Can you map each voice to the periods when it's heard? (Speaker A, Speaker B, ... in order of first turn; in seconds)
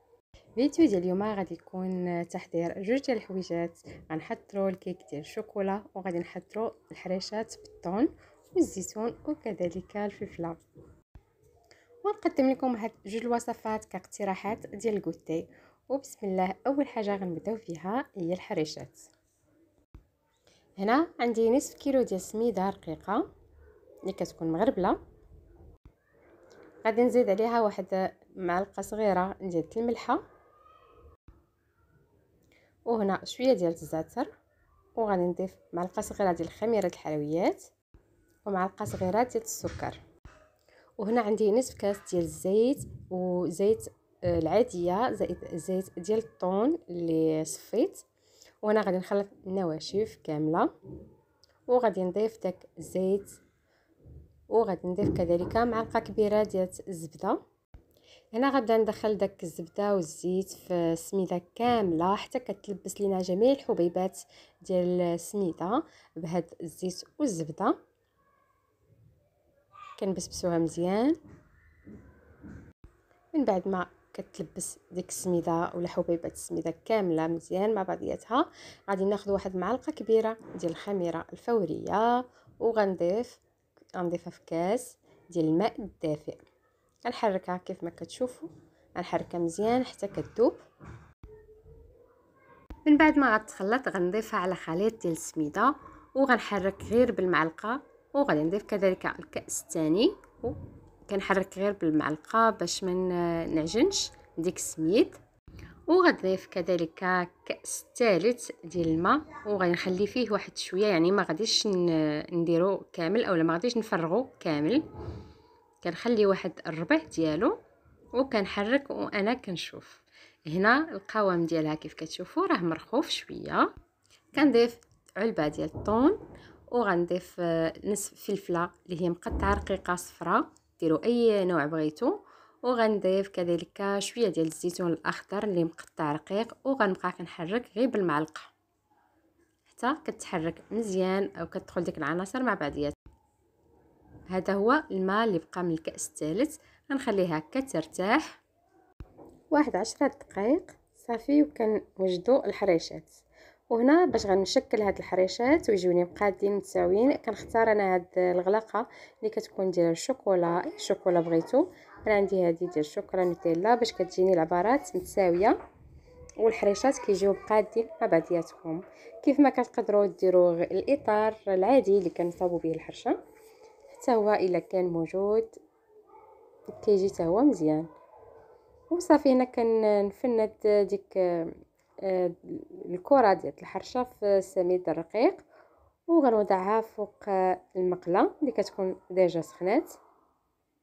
Speaker A: 0.6-10.6, 12.0-19.1, 20.8-23.3, 24.1-25.0, 26.8-30.2, 32.9-34.3, 35.0-37.7, 38.4-40.0, 41.0-48.0, 48.6-50.7, 51.7-53.4, 54.5-57.4, 58.3-67.8, 70.0-71.2, 73.3-83.4, 84.0-86.4, 87.0-90.6, 92.8-105.2, 105.9-114.8, 115.8-117.6, 118.1-123.7, 124.3-138.5, 139.7-142.9, 144.3-148.4, 149.5-165.6, 166.4-173.2, 173.9-175.6, 176.8-177.9, 178.9-185.4, 186.1-190.0